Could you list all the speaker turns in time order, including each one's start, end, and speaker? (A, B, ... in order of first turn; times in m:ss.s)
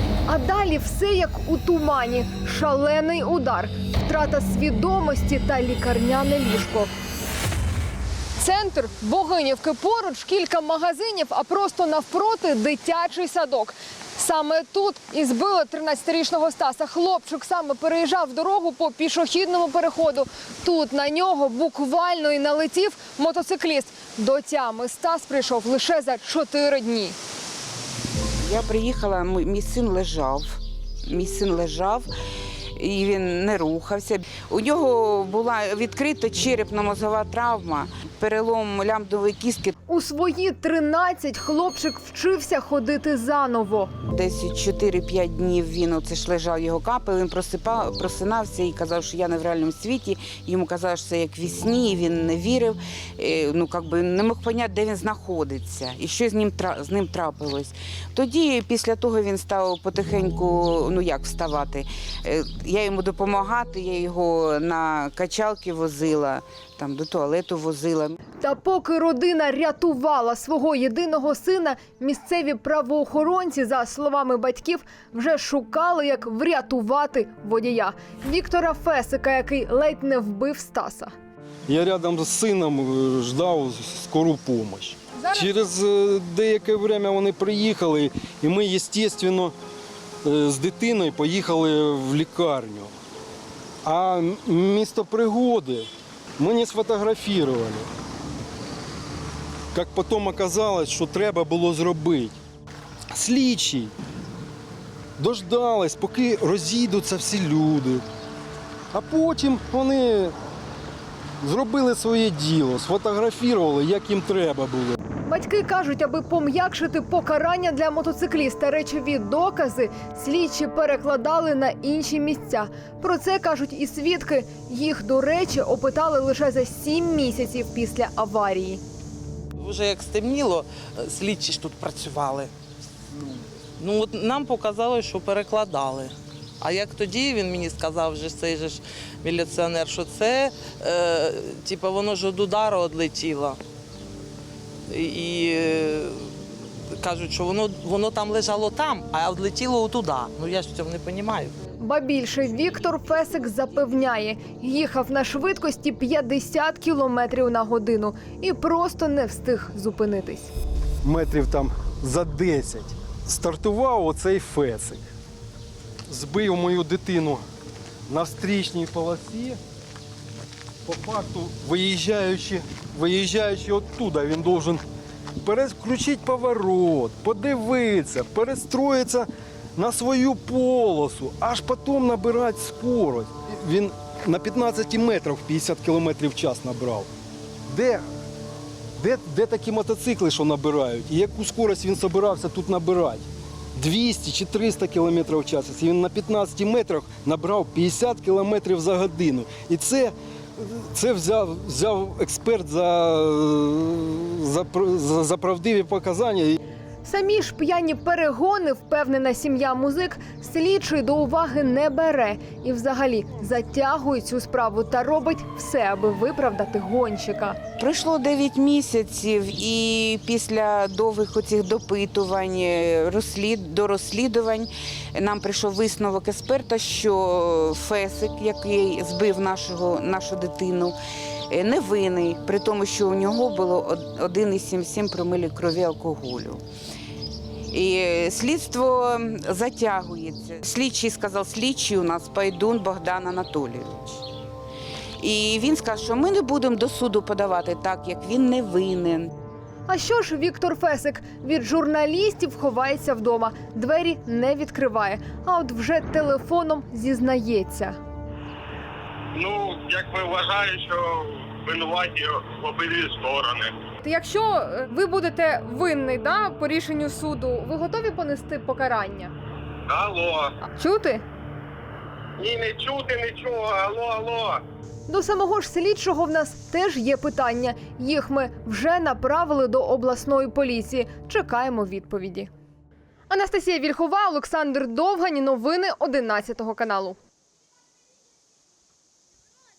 0:00.3-0:06.9 A
0:08.4-0:27.2 A
0:28.5-0:30.6 B
0:31.1-0:32.1 B
0:32.8-0:39.7 B
0:39.9-0:44.0 A
0:44.2-1:08.2 B
1:08.4-1:21.1 A
1:21.7-1:29.5 C
1:25.2-1:25.5 A
1:30.2-1:32.9 C
1:33.8-1:35.9 C
1:36.4-1:37.9 C
1:39.7-1:42.4 C
1:43.1-1:43.9 C
1:45.2-1:48.0 C
1:48.9-1:50.4 C
1:51.4-1:55.0 C
1:55.3-2:08.8 A
2:09.6-2:12.5 D
2:13.8-2:23.6 D
2:24.9-2:31.6 D
2:31.8-2:40.5 A
2:41.0-2:45.0 C
2:46.1-2:47.4 C
2:48.1-2:49.6 C
2:50.8-2:54.8 C
2:55.4-3:07.1 C
3:07.7-3:08.0 C
3:09.0-3:26.6 C
3:27.0-3:37.8 A
3:37.8-3:51.0 B
3:51.5-3:56.6 B
3:57.7-4:04.1 B
4:05.2-4:09.3 B
4:09.9-4:18.0 A
4:19.3-4:23.8 E
4:24.0-4:29.3 A
4:29.9-4:30.6 E
4:30.7-4:31.2 A
4:32.4-4:34.6 E
4:35.1-4:42.5 A
4:43.3-4:47.2 A